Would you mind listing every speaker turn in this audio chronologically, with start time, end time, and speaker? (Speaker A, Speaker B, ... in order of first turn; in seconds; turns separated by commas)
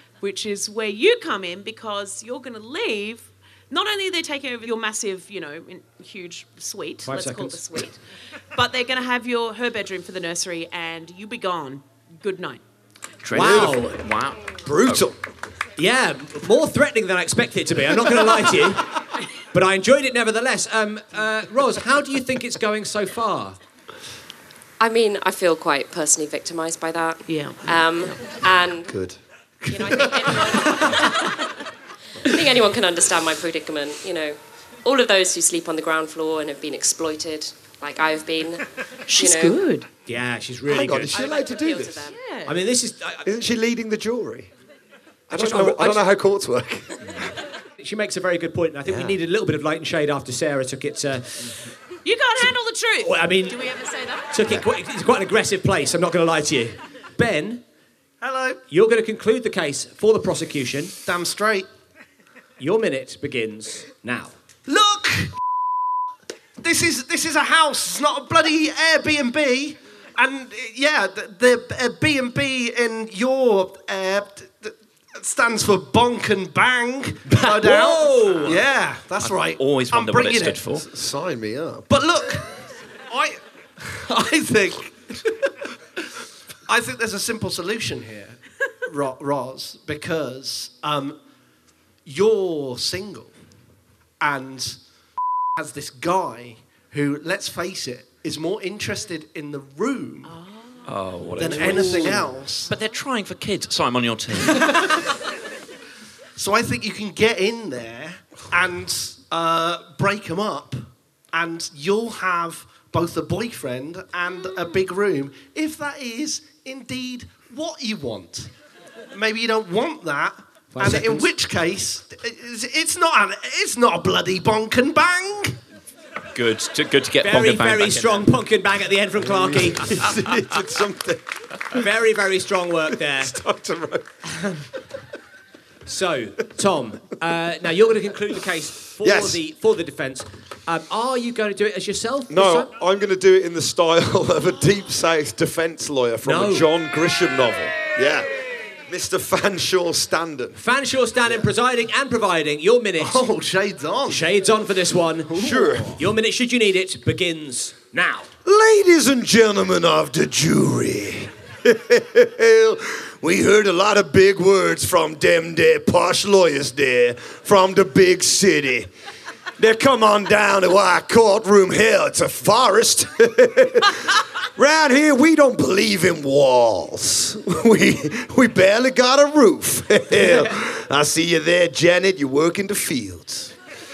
Speaker A: 0.2-8.0, Speaker B: 7.0-7.6, Speaker A: 8.5-12.6, Speaker C: 13.2-15.0, Speaker B: 13.3-14.0, Speaker D: 13.4-13.7, Speaker D: 14.7-15.2, Speaker B: 15.8-18.9, Speaker B: 19.5-23.6, Speaker E: 24.8-29.0, Speaker A: 27.3-28.4, Speaker D: 28.9-29.2, Speaker D: 29.7-30.0, Speaker E: 29.7-31.4, Speaker E: 32.2-39.6, Speaker A: 39.1-39.9, Speaker B: 40.0-41.7, Speaker D: 40.7-41.9, Speaker E: 41.1-42.2, Speaker A: 42.0-42.6, Speaker B: 42.5-43.2, Speaker D: 43.2-44.5, Speaker D: 45.3-47.2, Speaker B: 45.3-46.0, Speaker B: 47.8-51.5, Speaker D: 48.8-49.2, Speaker A: 52.0-54.3, Speaker B: 53.0-53.6, Speaker B: 54.3-57.6, Speaker F: 58.2-58.6, Speaker B: 58.7-60.9, Speaker F: 61.0-61.7, Speaker B: 62.6-64.3, Speaker F: 64.7-65.3, Speaker F: 66.6-80.7, Speaker C: 77.3-78.6, Speaker B: 77.7-78.5, Speaker C: 79.2-80.8, Speaker D: 80.9-81.8, Speaker F: 81.8-82.5, Speaker F: 83.1-85.3, Speaker F: 86.7-91.2, Speaker F: 92.0-93.3, Speaker F: 94.2-94.8, Speaker F: 95.5-100.3, Speaker A: 100.3-100.8, Speaker C: 100.8-104.8, Speaker F: 101.4-102.7, Speaker B: 101.8-102.1, Speaker F: 106.4-118.5, Speaker F: 119.1-125.6, Speaker B: 120.7-121.3, Speaker C: 126.3-128.3, Speaker B: 127.2-129.9, Speaker D: 129.2-131.2, Speaker B: 131.7-133.3, Speaker D: 133.1-134.2, Speaker B: 135.8-142.7, Speaker D: 139.0-139.4, Speaker D: 142.3-148.3, Speaker B: 146.2-146.7, Speaker D: 148.9-150.6, Speaker B: 150.6-153.2, Speaker F: 153.0-154.2, Speaker B: 154.1-158.3, Speaker D: 155.3-156.0, Speaker D: 158.4-168.9, Speaker D: 169.6-183.5, Speaker B: 180.2-180.5